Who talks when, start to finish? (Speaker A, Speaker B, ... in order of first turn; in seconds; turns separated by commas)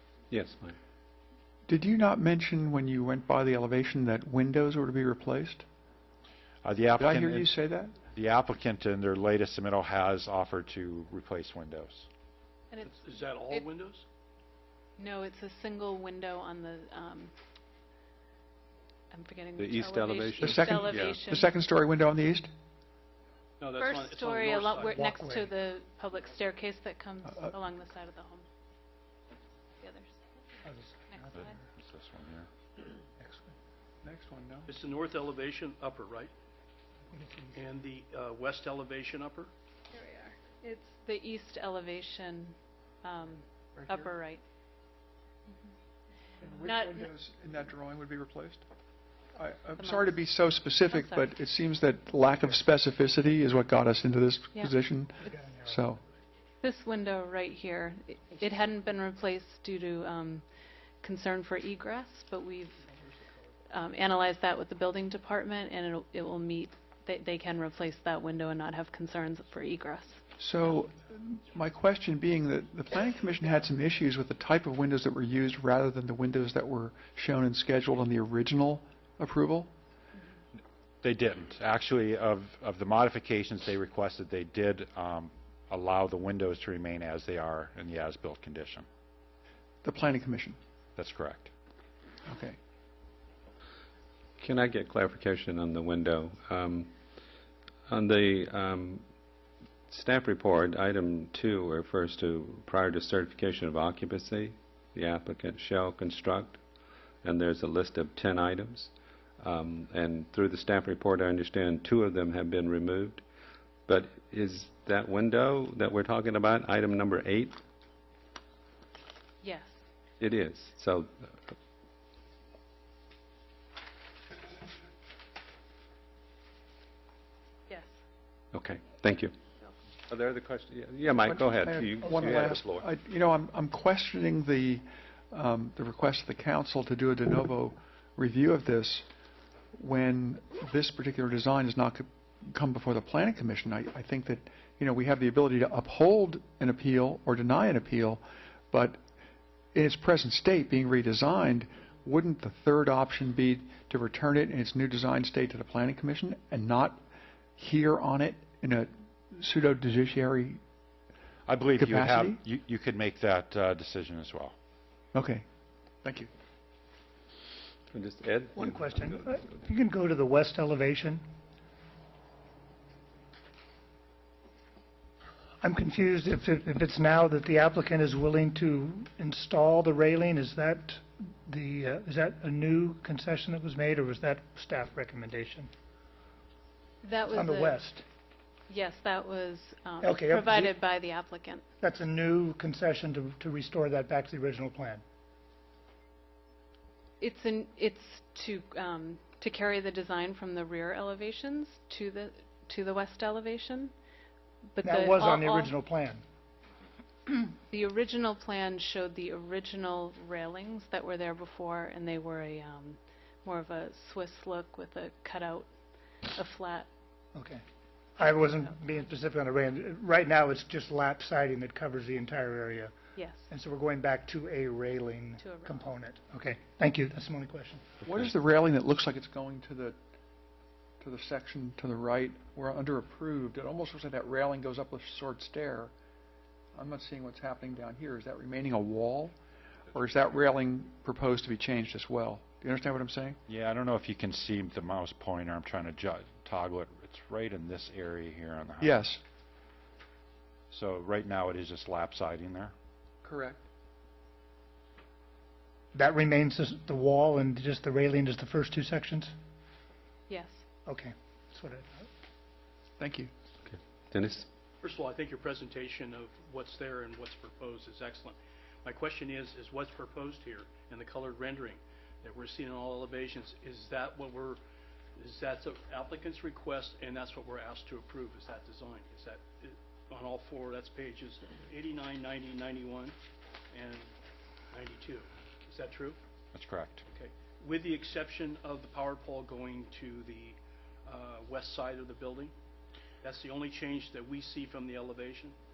Speaker A: 0.3-0.7, Speaker B: 1.7-5.6, Speaker C: 6.6-7.5, Speaker B: 7.0-7.9, Speaker C: 8.1-12.1, Speaker D: 12.7-13.7, Speaker E: 12.8-14.0, Speaker D: 15.0-17.3, Speaker D: 19.1-21.5, Speaker A: 19.6-21.2, Speaker B: 20.4-22.5, Speaker E: 23.6-25.1, Speaker D: 23.7-28.4, Speaker F: 24.9-25.5, Speaker D: 29.8-30.1, Speaker F: 30.6-31.6, Speaker D: 31.1-31.5, Speaker C: 31.3-32.5, Speaker F: 33.2-33.5, Speaker B: 34.0-34.7, Speaker E: 34.7-36.3, Speaker F: 37.1-37.6, Speaker E: 37.5-39.5, Speaker D: 39.9-44.4, Speaker B: 43.8-44.1, Speaker B: 46.4-48.6, Speaker D: 46.6-47.1, Speaker B: 49.3-56.0, Speaker D: 49.8-50.3, Speaker D: 50.9-51.3, Speaker F: 55.3-55.7, Speaker D: 56.6-60.4, Speaker D: 61.0-62.9, Speaker D: 63.7-70.2, Speaker B: 70.4-79.7, Speaker C: 81.0-88.8, Speaker B: 89.8-90.6, Speaker C: 91.0-91.5, Speaker B: 92.2-92.6, Speaker A: 94.4-96.9, Speaker A: 97.9-99.1, Speaker A: 99.9-106.7, Speaker A: 107.2-113.2, Speaker A: 113.9-117.6, Speaker D: 119.4-119.8, Speaker A: 120.2-121.5, Speaker A: 128.5-129.3, Speaker A: 130.1-132.9, Speaker B: 131.2-139.1, Speaker B: 139.7-149.0, Speaker B: 149.7-157.0, Speaker B: 157.6-160.6, Speaker C: 161.5-164.5, Speaker B: 161.8-162.4, Speaker B: 165.1-165.4, Speaker B: 166.0-166.3, Speaker A: 167.9-169.2, Speaker F: 168.6-171.2, Speaker F: 175.6-185.7, Speaker D: 187.0-187.9, Speaker F: 187.3-188.0, Speaker D: 188.7-191.6, Speaker F: 190.0-190.7, Speaker F: 191.8-195.0, Speaker D: 197.2-203.9, Speaker D: 204.7-205.7, Speaker F: 204.8-206.2, Speaker D: 207.3-215.7, Speaker D: 216.3-216.9, Speaker F: 217.3-217.6, Speaker F: 218.2-223.0, Speaker D: 223.1-223.5, Speaker F: 223.5-227.8, Speaker D: 225.4-225.9, Speaker B: 228.0-230.0, Speaker B: 231.0-235.9, Speaker B: 236.7-239.3, Speaker B: 239.9-243.4, Speaker C: 243.5-248.9, Speaker B: 248.8-249.2, Speaker C: 250.7-252.7, Speaker B: 253.2-253.6, Speaker F: 255.9-259.3, Speaker D: 260.3-260.6, Speaker F: 260.9-262.1, Speaker B: 263.0-263.3, Speaker A: 263.6-264.5, Speaker E: 264.8-274.6, Speaker E: 275.2-283.1, Speaker E: 283.7-284.1, Speaker E: 284.7-286.2, Speaker C: 286.5-287.0, Speaker E: 287.1-292.5, Speaker E: 293.2-295.5